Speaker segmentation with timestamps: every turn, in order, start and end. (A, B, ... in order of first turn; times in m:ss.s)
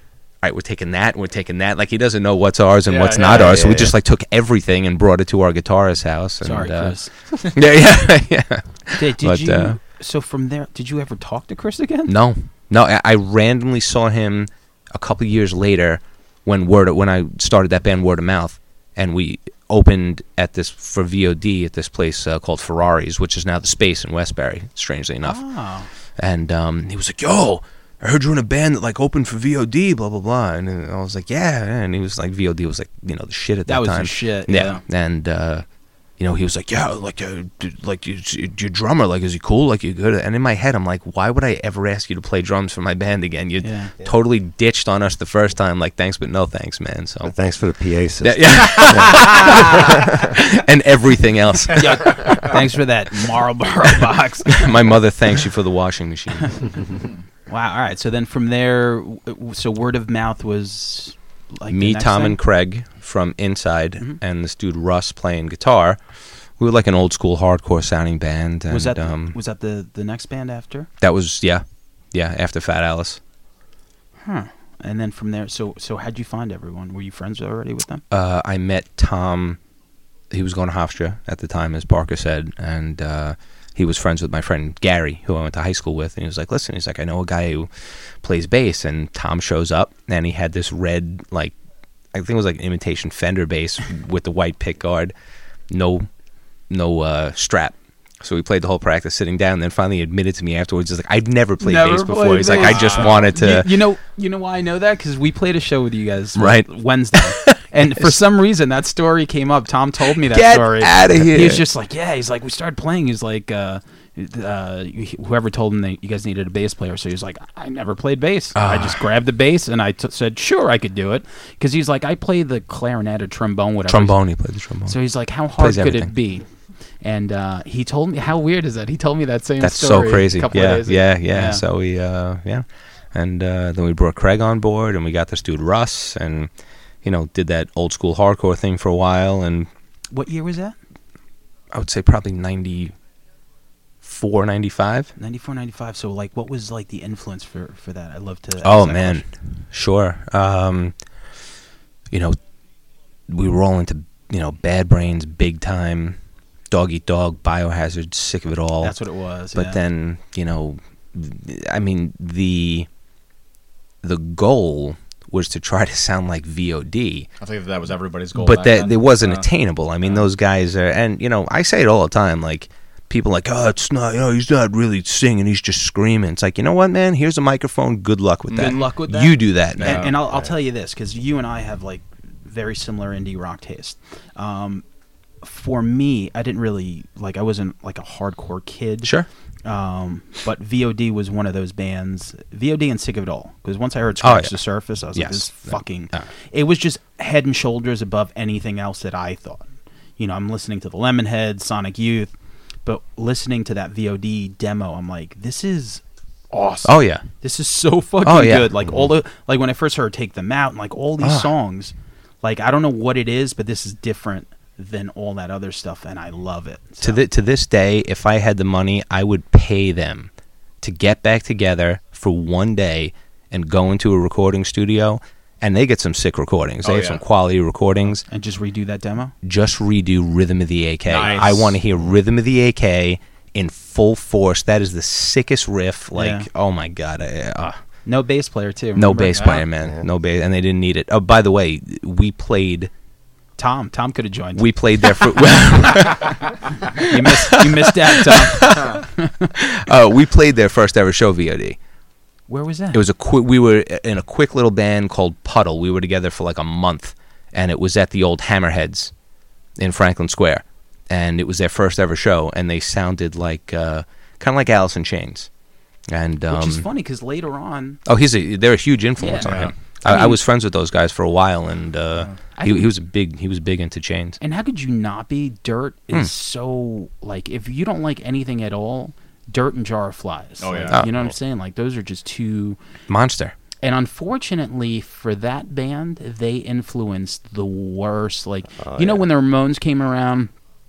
0:00.4-0:09.8 A
0:02.9-0:03.6 B
0:03.3-0:04.0 C
0:06.4-0:07.1 D
0:09.0-0:12.1 D
0:12.1-0:25.4 A
0:25.2-0:25.9 D
0:26.2-0:35.6 A
0:33.7-0:34.8 D
0:36.2-0:47.3 A
0:43.6-0:43.9 D
0:47.2-0:50.2 C
0:48.2-0:52.6 A
0:51.7-0:54.8 D
0:54.5-0:56.9 A
0:57.5-1:02.4 D
1:01.7-1:06.0 A
1:06.6-1:09.4 A
1:08.7-1:10.9 D
1:11.0-1:13.2 A
1:14.2-1:18.0 D
1:18.1-1:19.6 A
1:20.3-1:31.5 A
1:32.1-1:35.1 A
1:35.7-1:36.1 A
1:36.7-1:43.7 A
1:41.6-2:04.2 D
1:42.4-1:43.3 B
1:46.4-1:48.1 A
1:50.2-1:51.6 A
1:58.6-1:59.0 A
2:03.9-2:05.0 A
2:04.9-2:06.5 D
2:05.6-2:06.1 A
2:07.0-2:11.6 D
2:09.6-2:16.5 A
2:17.0-2:19.7 A
2:20.1-2:20.8 D
2:21.7-2:22.9 A
2:24.0-2:25.1 A
2:25.2-2:29.2 D
2:28.6-2:31.0 A
2:32.1-2:32.4 A
2:33.3-2:36.2 A
2:36.7-2:39.0 A
2:38.8-2:39.8 D
2:39.6-2:42.9 A
2:44.0-2:47.3 A
2:47.4-2:49.5 B
2:48.4-3:00.1 A
2:50.0-2:50.3 B
2:58.5-2:58.9 B
2:58.5-3:04.8 D
2:59.8-3:00.1 B
3:05.4-3:09.1 D
3:09.6-3:19.7 D
3:14.2-3:14.6 A
3:15.2-3:16.3 A
3:20.2-3:22.3 D
3:22.8-3:37.2 D
3:26.8-3:27.2 A
3:28.2-3:28.7 A
3:31.2-3:31.5 A
3:37.0-3:40.3 A
3:40.8-3:48.2 A
3:46.8-3:47.2 B
3:48.2-3:49.3 D
3:49.4-3:57.8 A
3:51.1-3:51.8 B
3:56.1-3:56.5 D
3:58.1-3:59.6 D
3:59.0-4:02.9 A
3:59.4-3:59.6 B
4:03.6-4:05.2 D
4:04.6-4:09.0 A
4:07.0-4:09.5 D
4:09.6-4:11.8 A
4:12.5-4:13.0 D
4:12.9-4:19.1 A
4:19.8-4:25.5 A
4:26.1-4:26.9 A
4:26.5-4:28.0 D
4:28.1-4:34.4 A
4:29.2-4:30.4 D
4:29.4-4:29.7 B
4:32.6-4:32.9 D
4:34.4-4:42.8 D
4:40.6-4:41.0 B
4:43.1-4:43.6 A
4:43.8-4:50.5 D
4:48.8-4:49.3 C